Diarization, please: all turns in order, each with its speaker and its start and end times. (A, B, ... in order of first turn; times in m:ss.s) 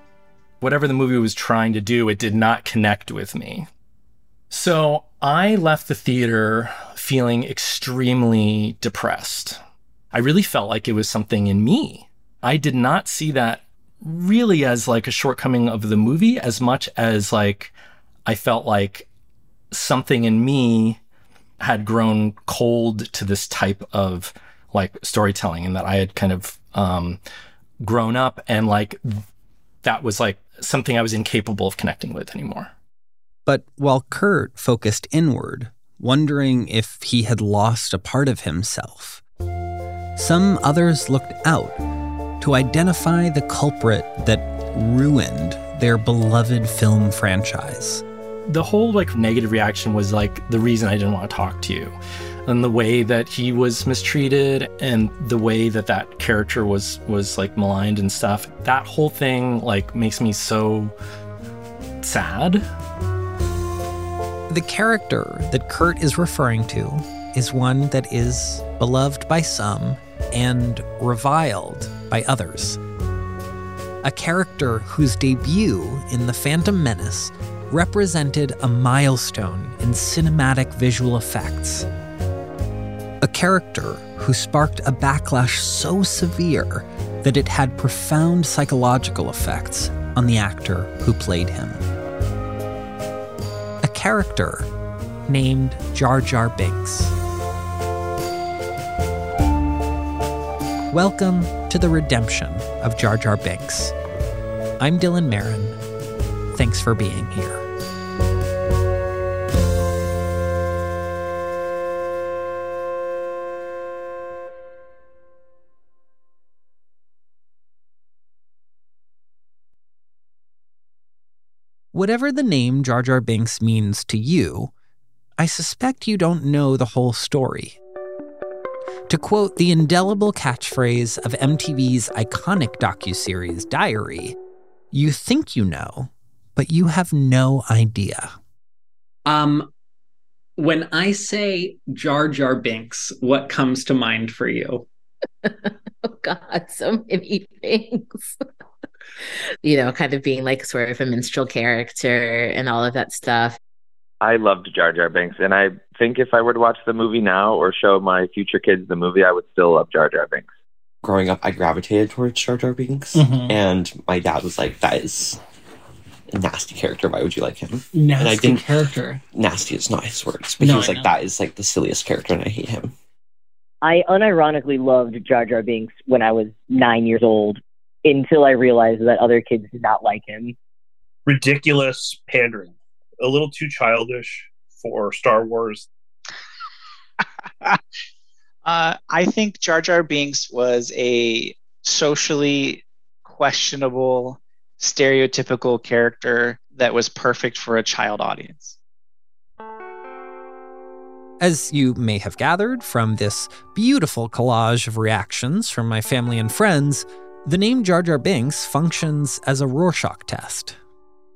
0:00.6-0:03.7 A
0:04.5-0:09.6 A
0:10.1-0:17.7 A
0:18.2-0:19.1 A
0:19.7-0:21.0 A
0:21.6-0:27.2 A
0:27.8-0:29.2 A
0:29.8-0:32.7 A
0:33.4-0:39.2 B
0:40.2-0:41.8 B
0:42.4-0:48.0 B
0:48.5-1:00.9 A
1:02.0-1:02.6 A
1:04.5-1:12.8 B
1:14.0-1:21.9 B
1:23.2-1:31.8 B
1:33.8-1:34.7 B
1:35.3-1:37.1 B
1:40.9-1:43.9 B
1:44.8-1:45.8 B
1:46.5-1:47.6 B
2:01.9-2:04.7 B
2:05.4-2:07.8 B
2:09.1-2:14.4 B
2:14.9-2:18.3 B
2:19.2-2:19.7 B
2:20.6-2:24.8 B
2:25.4-2:28.4 C
2:29.6-2:33.6 C
2:34.2-2:40.5 D
2:41.0-2:45.4 E
2:43.1-2:43.5 F
2:46.3-2:48.7 E
2:47.9-2:49.2 F
2:49.3-2:52.9 E
2:50.6-2:51.1 F
2:53.8-3:00.5 G
3:01.2-3:05.9 H
3:08.6-3:18.8 I
3:21.4-3:30.8 B